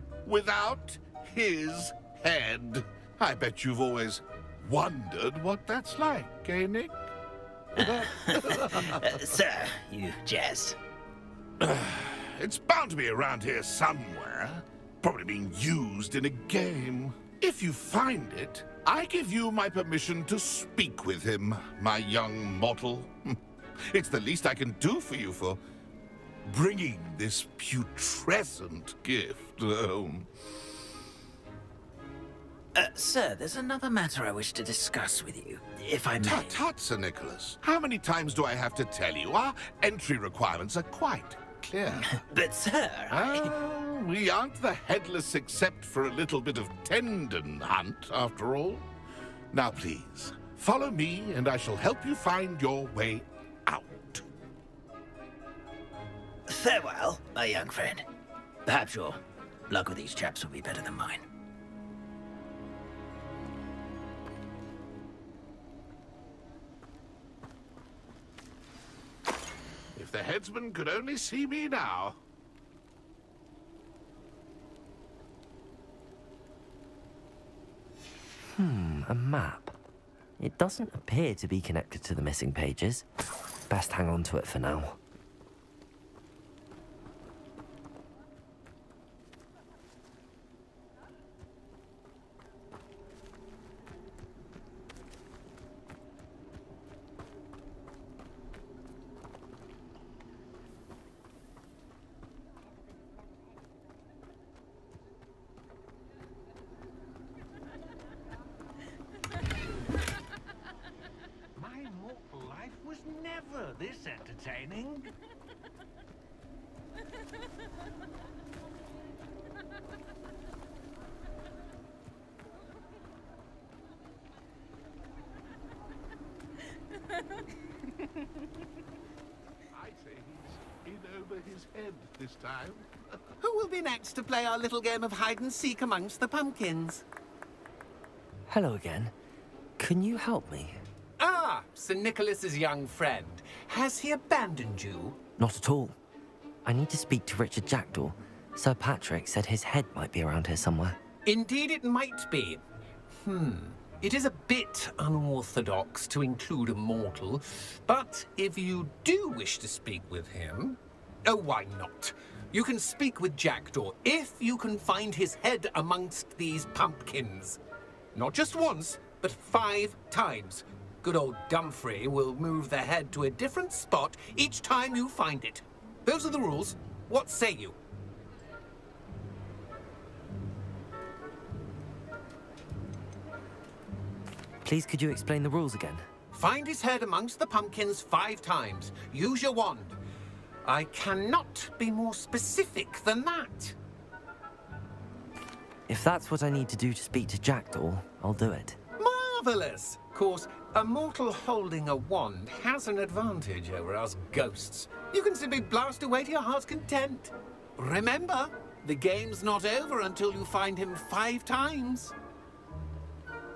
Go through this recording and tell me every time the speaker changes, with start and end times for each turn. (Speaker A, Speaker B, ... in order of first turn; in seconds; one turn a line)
Speaker A: 0.2-7.1
Speaker A: 7.8-9.2
Speaker B: 7.8-10.8
Speaker A: 11.6-23.4
Speaker A: 23.9-25.6
Speaker A: 26.4-30.3
Speaker B: 32.7-36.6
Speaker A: 36.2-42.2
Speaker B: 42.0-43.5
Speaker A: 43.1-48.8
Speaker A: 49.5-54.3
Speaker B: 56.5-58.0
Speaker B: 58.6-61.2
Speaker A: 69.9-72.2
Speaker C: 78.5-79.8
Speaker C: 80.4-83.0
Speaker C: 83.7-85.0
Speaker D: 111.6-112.9
Speaker E: 111.8-115.0
Speaker D: 113.5-114.8
Speaker A: 129.7-132.9
Speaker E: 133.4-137.0
Speaker C: 138.5-139.1
Speaker C: 139.8-140.8
Speaker E: 141.2-145.2
Speaker C: 145.4-145.9
Speaker C: 146.6-151.0
Speaker E: 151.2-167.6
Speaker E: 168.1-177.8
Speaker C: 184.6-186.1
Speaker E: 186.3-190.0
Speaker E: 190.6-193.8
Speaker C: 195.9-198.8
Speaker E: 199.0-212.1